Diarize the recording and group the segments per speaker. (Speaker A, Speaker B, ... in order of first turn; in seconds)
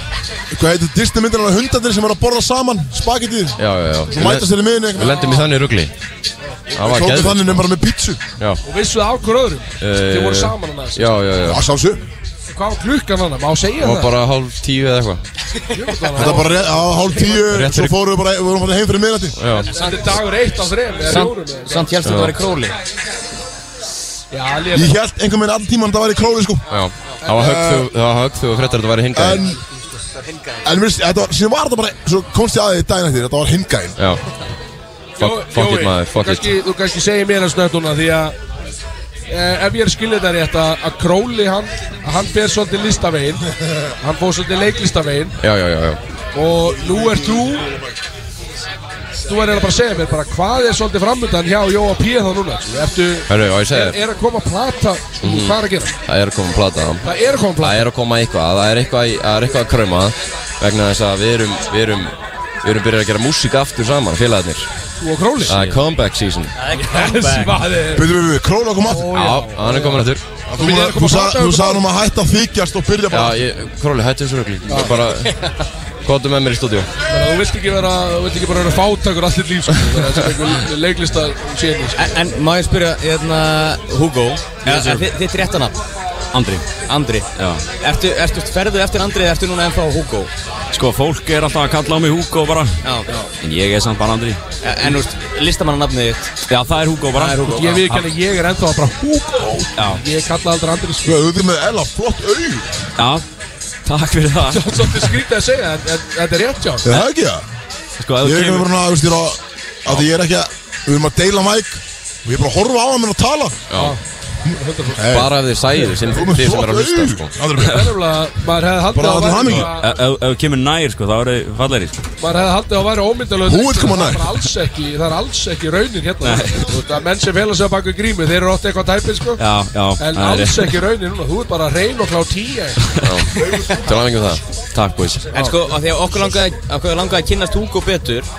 Speaker A: 0.5-3.6, 4.1-5.4, 6.8-8.2, 11.4-12.0, 16.2-19.4, 24.7-26.6, 27.3-27.9, 29.1-29.6, 30.6-34.0, 46.6-47.9, 67.9-69.2, 70.5-73.4, 101.0-102.7, 106.8-107.4, 108.2-113.7, 114.5-115.3, 116.0-118.0, 118.9-119.7, 123.4-124.4
Speaker B: 3.6-5.9, 6.7-7.7, 9.8-11.6, 13.8-15.2, 17.4-18.0, 19.4-19.7, 22.0-22.4, 26.7-29.4, 35.2-36.5, 45.4-46.0, 53.3-54.0, 55.2-57.0, 57.6-64.7, 65.4-66.5, 69.1-70.2, 73.1-75.3, 76.0-76.9, 113.7-114.0, 115.0-117.3, 133.0-135.3
Speaker C: 5.1-5.4, 8.6-11.2, 12.5-14.1, 15.7-17.5, 19.7-21.9, 24.3-24.9, 35.2-38.4, 39.3-43.4, 44.0-45.4, 46.3-47.7, 49.3-56.0, 57.0-57.8, 65.0-65.7, 66.8-68.1, 68.9-70.1, 70.6-71.8, 74.7-75.0, 77.1-82.2, 97.4-101.2, 104.5-106.9, 113.7-114.0, 114.5-115.9, 117.6-119.9, 122.2-129.4, 130.0-132.8
Speaker D: 21.1-22.8, 30.2-30.6, 66.6-67.6, 74.7-75.6, 82.0-85.8, 86.9-90.3, 92.8-93.1, 94.6-96.3, 97.2-97.7, 133.4-133.8, 135.3-138.3
Speaker E: 84.7-85.1, 86.3-86.7, 87.4-87.6, 90.7-92.8, 93.4-94.4, 96.5-98.0, 99.8-100.0, 103.0-103.2, 103.9-105.1, 108.0-108.7, 119.5-122.0, 126.2-126.7, 129.4-130.8